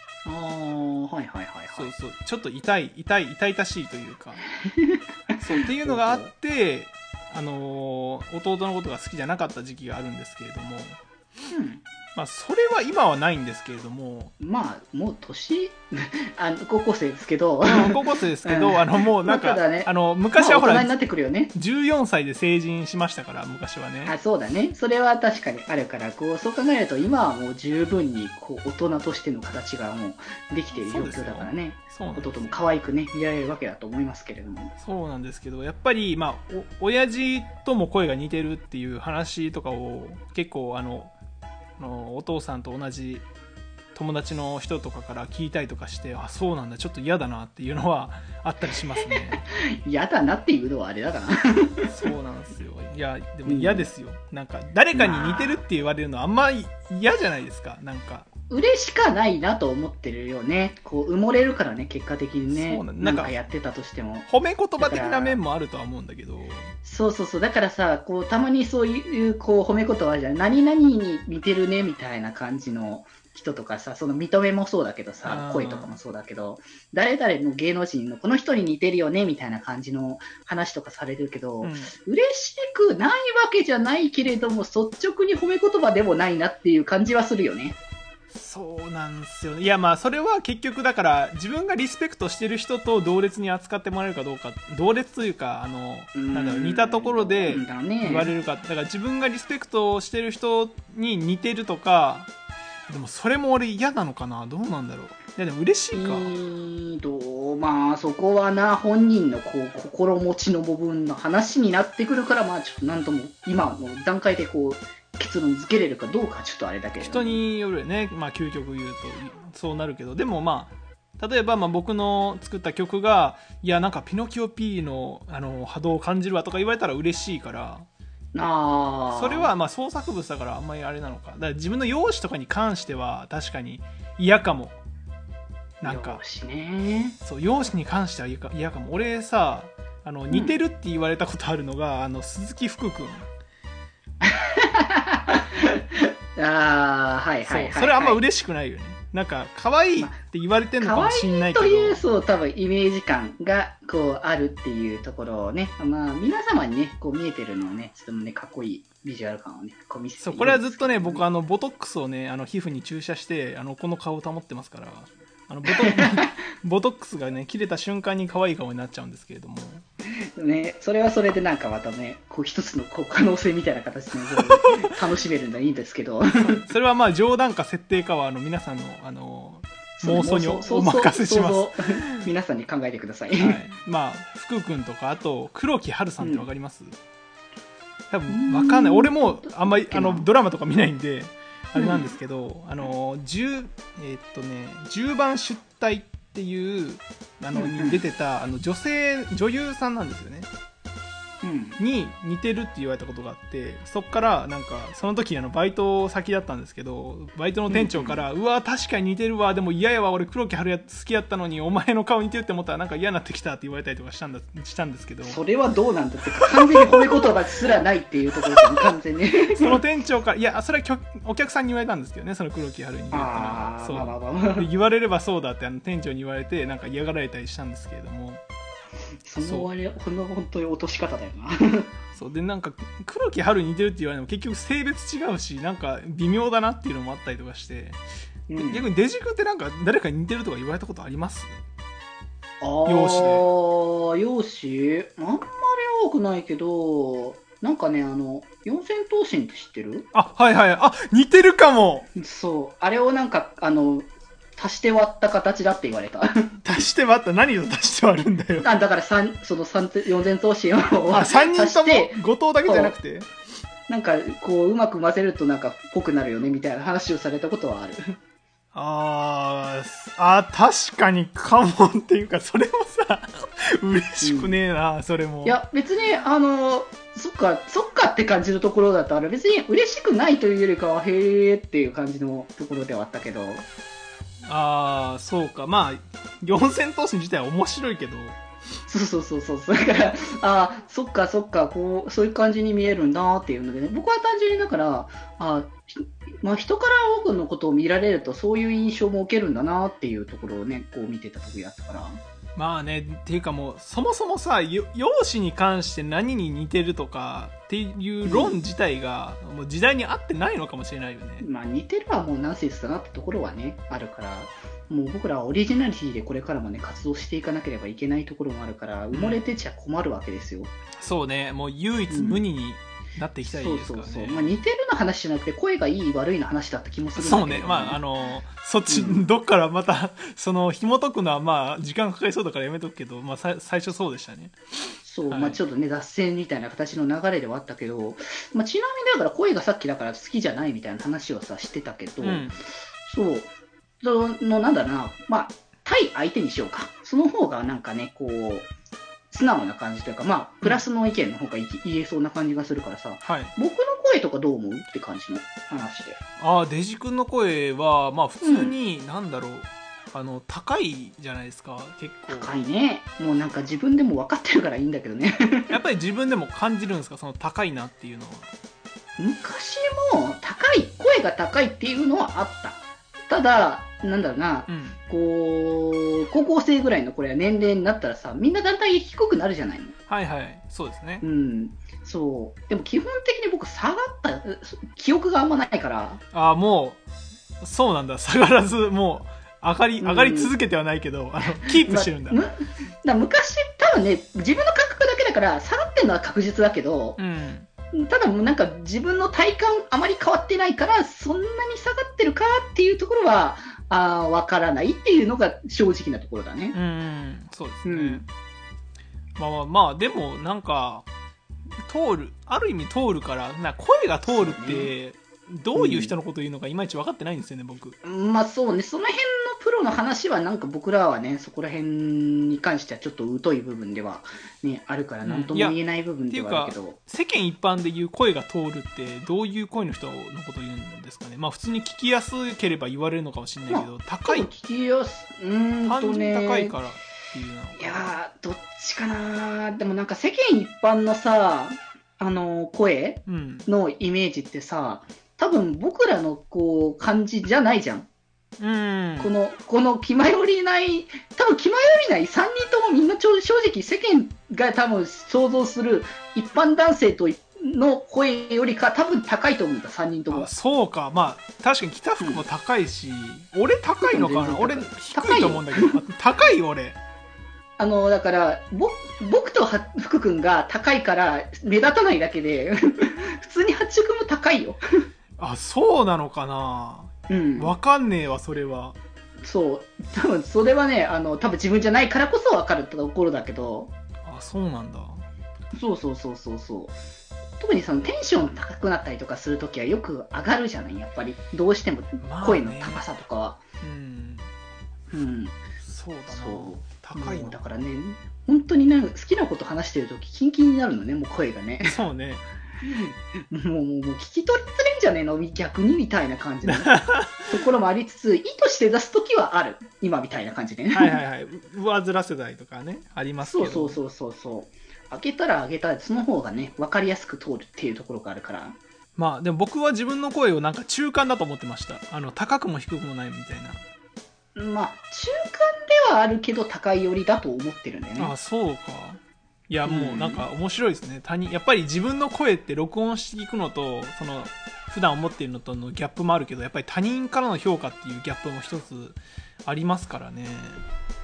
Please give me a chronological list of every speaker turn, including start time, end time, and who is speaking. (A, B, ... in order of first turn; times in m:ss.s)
0:00.2-0:01.9 A
0:01.7-0:04.4 B
0:04.6-0:06.3 A
0:05.4-0:11.0 B
0:11.5-0:11.8 A
0:12.2-0:14.3 B
0:14.4-0:21.5 A
0:17.6-0:21.0 B
0:21.5-0:24.1 B
0:24.0-0:34.7 A
0:30.7-0:32.6 B
0:34.8-0:41.1 B
0:41.8-0:43.3 B
0:43.9-0:49.4 B
0:49.3-0:51.8 A
0:51.9-0:58.2 B
0:53.4-0:53.9 A
0:54.9-0:55.6 A
0:58.5-1:05.4 A
1:02.5-1:03.4 B
1:04.3-1:06.7 B
1:06.8-1:27.8 A
1:15.2-1:15.9 B
1:21.6-1:21.9 B
1:28.3-1:42.3 B
1:36.1-1:38.3 A
1:42.9-1:46.3 B
1:45.9-1:57.4 A
1:57.0-2:07.8 B
2:08.3-2:09.5 A
2:09.1-2:14.8 B
2:15.8-2:16.2 B
2:15.8-2:17.2 A
2:17.2-2:23.3 B
2:20.3-2:20.6 A
2:24.2-2:28.2 A
2:27.4-2:32.0 B
2:30.8-2:41.2 A
2:40.2-2:49.8 B
2:45.7-2:46.1 A
2:50.3-2:56.3 A
2:54.3-2:54.7 B
2:56.3-3:02.3 B
3:00.0-3:03.6 A
3:03.4-3:07.0 B
3:06.2-3:06.5 A
3:08.1-3:20.5 B
3:08.3-3:10.3 A
3:11.8-3:12.1 A
3:17.5-3:18.0 A
3:21.4-3:21.8 A
3:21.8-3:35.4 B
3:27.7-3:28.2 A
3:35.2-3:39.8 A
3:36.6-3:37.2 B
3:39.5-3:48.4 B
3:43.1-3:44.7 A
3:49.2-3:51.9 A
3:49.4-3:49.7 B
3:52.1-3:58.0 B
3:58.5-3:58.9 A
3:58.6-4:01.6 B
4:02.6-4:10.1 A
4:02.8-4:03.5 B
4:10.1-4:12.1 B
4:12.2-4:16.5 A
4:16.6-4:18.7 B
4:18.6-4:23.0 A
4:21.1-4:23.3 B
4:23.9-4:28.2 A
4:28.7-4:35.6 B
4:34.2-4:34.6 A
4:35.4-4:43.6 A
4:44.5-4:48.4 B
4:48.9-5:02.2 A
5:02.6-5:11.4 B
5:08.2-5:08.5 A
5:11.4-5:20.7 A
5:19.1-5:19.4 B
5:21.0-5:24.5 B
5:22.1-5:22.4 A
5:23.4-5:28.0 A
5:27.2-5:34.5 B
5:28.9-5:29.2 A
5:35.0-5:43.5 A
5:35.3-5:35.6 B
5:42.2-5:42.6 B
5:44.0-5:48.7 A
5:49.3-5:56.2 A
5:53.2-5:53.5 B
5:56.4-6:02.5 B
5:58.4-5:58.7 A
6:02.3-6:05.7 A
6:05.7-6:08.5 B
6:09.2-6:19.9 A
6:14.7-6:15.0 B
6:20.1-6:21.2 B
6:21.2-6:26.2 A
6:26.3-6:27.0 B
6:27.6-6:32.4 B
6:30.0-6:30.5 A
6:31.6-6:37.2 A
6:37.2-6:37.7 B
6:37.9-6:46.8 A
6:46.7-6:48.3 B
6:47.8-6:48.2 A
6:49.4-6:51.1 B
6:51.8-6:58.0 B
6:54.2-6:54.9 A
6:55.7-6:56.1 A
6:58.0-7:07.0 A
7:05.2-7:05.8 B
7:06.3-7:14.5 B
7:13.7-7:16.8 A
7:15.8-7:18.2 B
7:17.8-7:28.1 A
7:23.2-7:23.7 B
7:28.6-7:29.3 B
7:29.2-7:40.5 A
7:40.3-7:47.0 B
7:42.2-7:42.4 A
7:44.0-7:45.9 A
7:47.8-7:54.8 A
7:55.4-7:59.0 B
7:57.3-7:57.7 A
7:59.4-8:03.9 A
8:04.2-8:05.2 B
8:05.7-8:07.0 A
8:07.6-8:13.6 A
8:12.2-8:13.0 B
8:13.8-8:14.5 B
8:15.1-8:15.6 A
8:15.8-8:17.6 B
8:16.3-8:22.0 A
8:21.8-8:22.4 B
8:22.8-8:31.2 A
8:26.6-8:27.5 B
8:30.9-8:34.0 B
8:33.4-8:38.8 A
8:39.2-8:43.8 B
8:44.5-8:48.3 A
8:48.2-9:00.8 B
8:49.8-8:50.4 A